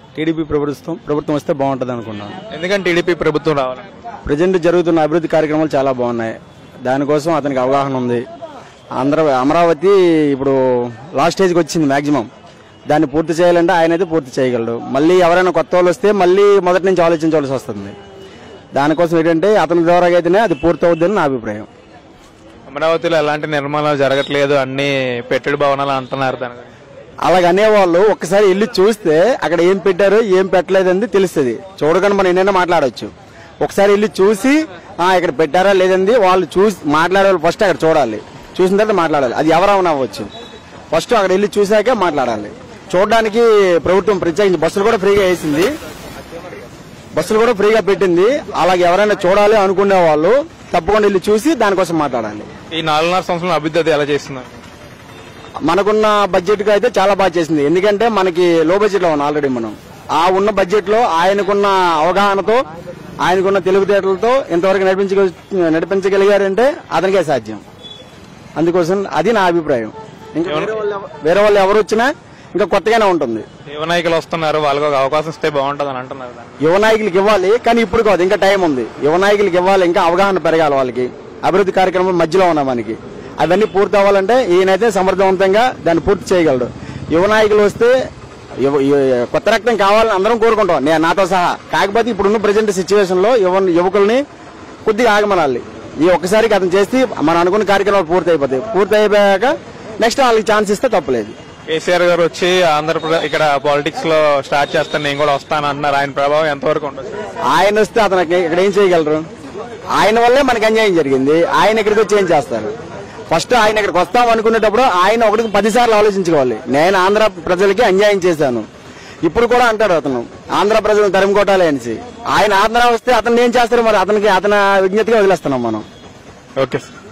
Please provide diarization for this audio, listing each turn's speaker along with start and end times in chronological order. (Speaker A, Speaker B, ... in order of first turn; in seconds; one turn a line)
Speaker A: 0.2-2.4
Speaker B: 2.5-3.9
Speaker A: 4.3-8.2
Speaker A: 9.0-12.3
Speaker A: 12.9-17.9
Speaker A: 18.7-21.7
Speaker B: 22.7-26.7
Speaker A: 27.2-40.3
Speaker A: 40.9-45.7
Speaker A: 47.1-52.5
Speaker B: 52.7-54.6
Speaker A: 55.7-62.6
Speaker A: 63.2-67.6
Speaker A: 68.6-73.5
Speaker B: 70.5-70.8
Speaker B: 73.7-76.5
Speaker A: 76.6-87.9
Speaker A: 88.6-94.2
Speaker A: 94.8-101.3
Speaker B: 101.7-107.1
Speaker A: 107.5-109.2
Speaker A: 110.0-112.7
Speaker A: 113.3-118.7
Speaker A: 119.2-125.8
Speaker B: 126.6-126.8